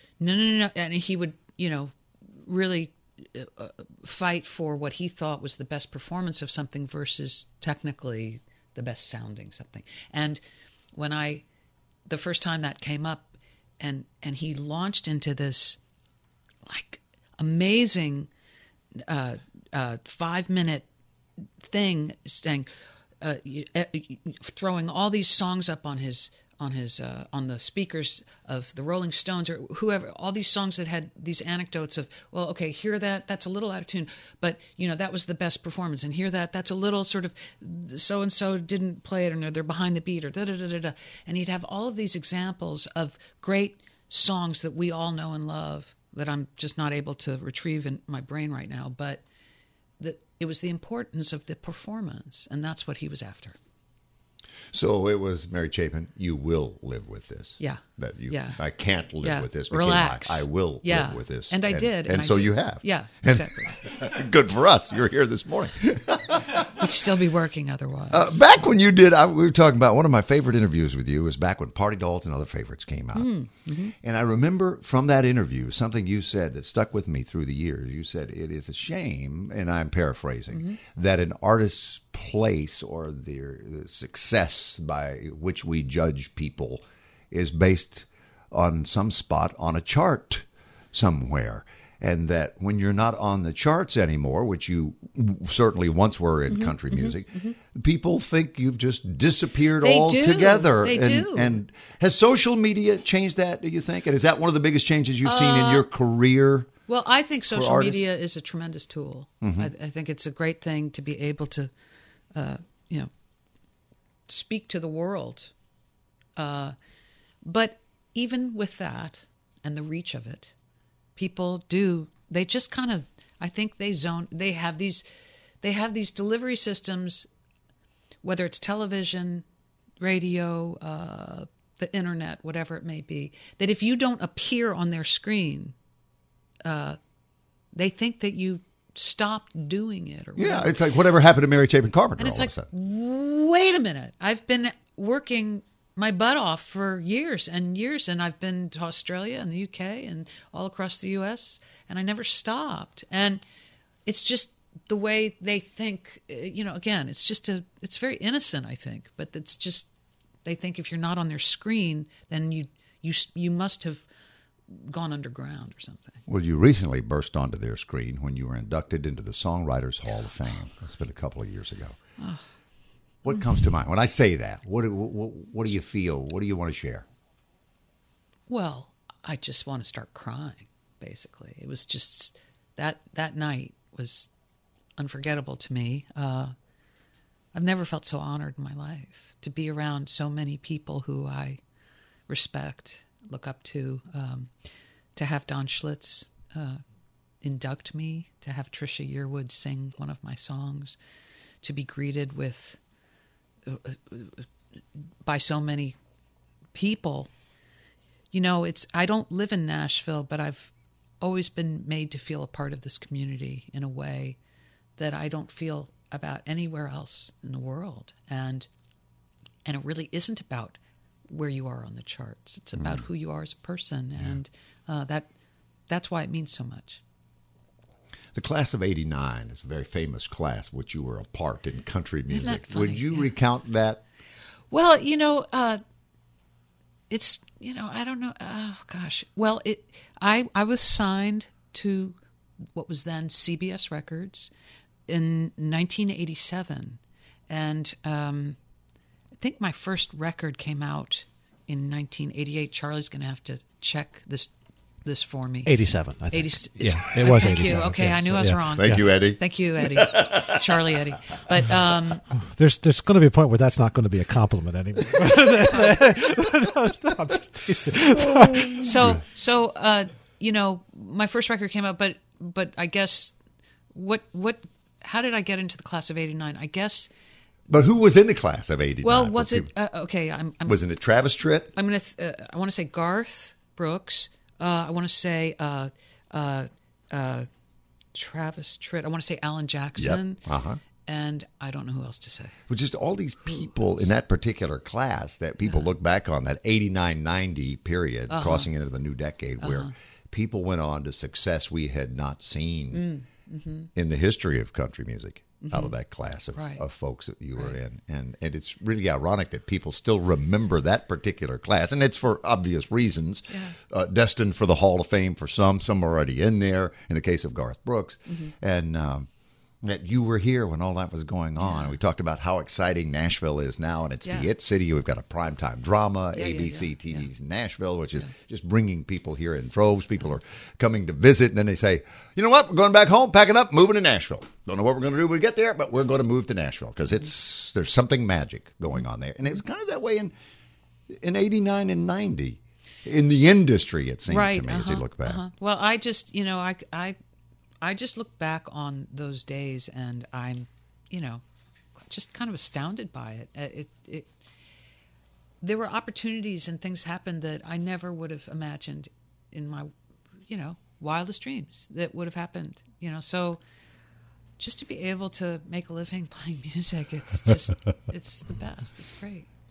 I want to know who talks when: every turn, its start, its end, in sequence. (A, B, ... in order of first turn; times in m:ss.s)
0:00.2-0:10.4 A
0:11.0-0:11.4 A
0:12.1-0:15.8 A
0:16.7-0:18.3 A
0:19.0-0:20.9 A
0:21.6-0:22.7 A
0:23.2-0:49.2 A
0:50.0-0:53.6 A
0:54.7-1:06.9 B
0:57.6-0:58.6 A
0:59.2-1:03.8 A
1:06.7-1:08.4 A
1:08.1-1:13.3 B
1:13.1-1:13.9 A
1:13.9-1:46.7 B
1:20.5-1:20.8 A
1:36.5-1:37.6 A
1:39.8-1:41.6 A
1:45.2-1:45.9 A
1:46.9-1:51.7 A
1:47.5-1:48.0 B
1:49.4-1:49.7 B
1:52.3-1:53.1 A
1:54.3-1:55.5 A
1:56.4-1:56.8 A
1:57.4-2:00.6 A
2:01.2-2:05.0 A
2:05.6-2:07.3 A
2:08.2-2:09.4 A
2:10.0-2:15.7 A
2:16.6-2:17.0 A
2:17.7-2:20.7 A
2:20.4-2:22.7 B
2:22.2-2:33.4 A
2:34.1-2:39.9 A
2:40.4-2:44.1 A
2:44.7-2:46.2 A
2:46.3-2:52.0 B
2:52.2-2:52.5 A
2:53.2-2:57.1 B
2:58.5-3:04.3 A
3:05.0-3:06.5 A
3:07.5-3:11.6 A
3:12.3-3:14.5 A
3:15.2-3:16.8 A
3:17.4-3:21.0 A
3:21.6-3:22.8 A
3:23.7-3:24.5 A
3:25.2-3:26.0 A
3:26.7-3:27.3 A
3:28.3-3:34.4 A
3:35.0-3:38.7 A
3:39.7-3:45.3 A
3:45.9-3:47.0 A
3:48.3-3:54.0 B
3:52.3-3:53.3 A
3:54.7-3:55.8 A
3:57.1-4:02.2 A
4:02.7-4:04.5 A
4:05.1-4:08.6 A
4:09.4-4:14.5 A
4:15.0-4:15.8 A
4:15.7-4:19.1 C
4:16.3-4:22.2 A
4:18.8-4:20.9 B
4:22.4-4:28.9 C
4:25.6-4:26.0 A
4:28.2-4:29.2 B
4:28.8-4:33.4 A
4:33.9-4:37.1 A
4:37.7-4:39.7 B
4:39.0-4:40.8 A
4:40.6-4:41.7 B
4:41.7-4:47.5 A
4:48.1-4:50.4 A
4:50.0-4:50.8 B
4:51.0-4:52.6 A
4:52.7-5:03.1 B
4:53.4-4:53.8 A
4:58.3-4:58.7 A
4:59.6-4:59.9 A
5:02.9-5:03.9 A
5:04.0-5:19.3 B
5:05.6-5:05.9 A
5:06.5-5:06.8 A
5:13.5-5:13.8 A
5:19.8-5:40.3 B
5:21.6-5:22.0 A
5:24.2-5:24.5 A
5:26.3-5:27.3 A
5:41.1-5:45.4 B
5:44.3-5:47.2 A
5:47.8-5:51.4 A
5:52.0-5:54.4 A
5:55.6-5:59.9 A
6:00.5-6:03.6 A
6:04.6-6:09.5 A